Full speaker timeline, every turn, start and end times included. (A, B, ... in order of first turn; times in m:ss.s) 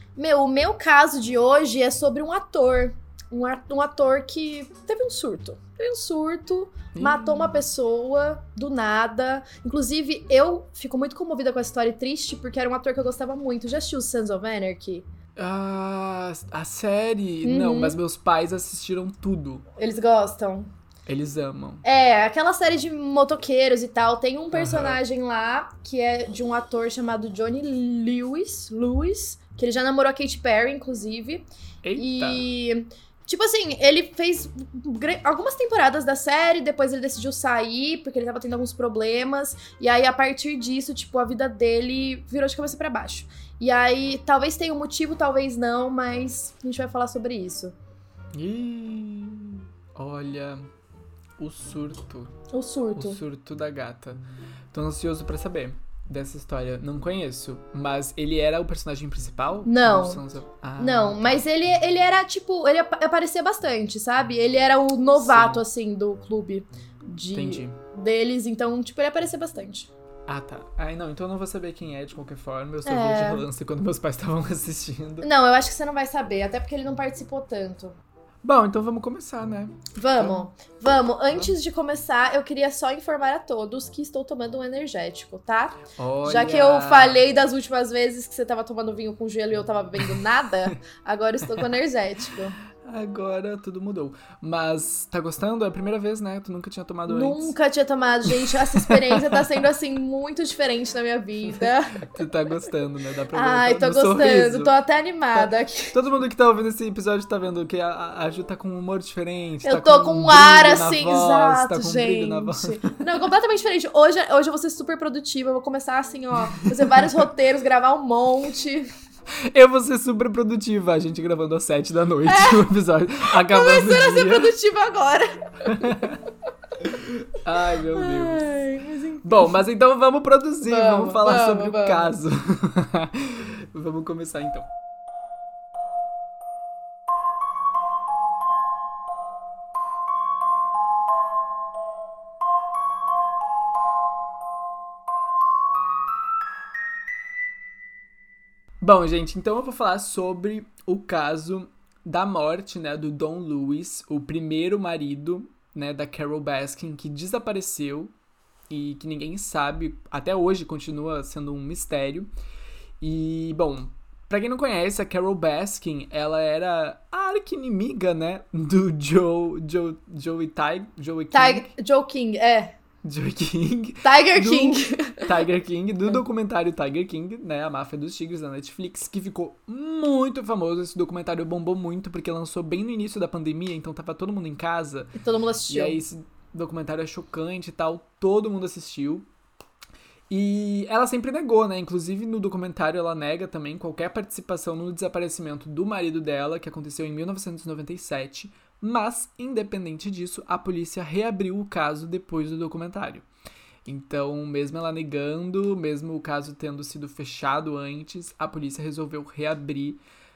0:00.2-0:15.1 A
0:06.9-0:07.6 B
0:15.4-0:19.7 B
0:17.4-0:18.0 A
0:19.8-0:20.7 A
0:21.1-0:21.8 B
0:21.8-0:31.4 A
0:24.5-0:25.0 B
0:31.8-0:32.5 B
0:32.0-0:47.7 A
0:48.3-0:50.6 B
0:51.4-0:52.4 B
0:52.5-0:53.2 A
0:53.0-0:54.2 B
0:54.7-1:01.4 B
0:59.7-1:00.2 A
1:00.8-1:09.9 A
1:05.2-1:05.6 B
1:07.3-1:07.8 B
1:10.3-1:15.3 B
1:12.8-1:13.4 A
1:15.2-1:18.0 A
1:18.4-1:20.4 B
1:20.0-1:32.6 A
1:26.0-1:27.2 B
1:32.9-1:37.5 B
1:37.1-1:42.2 A
1:38.3-1:39.4 B
1:41.5-1:44.7 B
1:43.3-1:46.0 A
1:45.4-1:53.1 B
1:49.6-1:58.9 A
1:56.5-1:57.1 B
1:59.5-2:04.5 B
2:02.3-2:02.7 A
2:03.3-2:06.1 A
2:05.7-2:06.2 B
2:06.8-2:08.4 B
2:07.9-2:09.6 A
2:09.2-2:14.7 B
2:10.6-2:12.2 A
2:28.8-2:38.1 B
2:38.7-2:42.3 B
2:43.0-2:51.7 B
2:51.3-2:52.8 A
2:53.0-3:05.1 B
2:54.0-2:55.4 A
3:05.2-3:06.0 A
3:05.7-3:09.3 B
3:10.3-3:23.3 B
3:23.9-3:30.0 B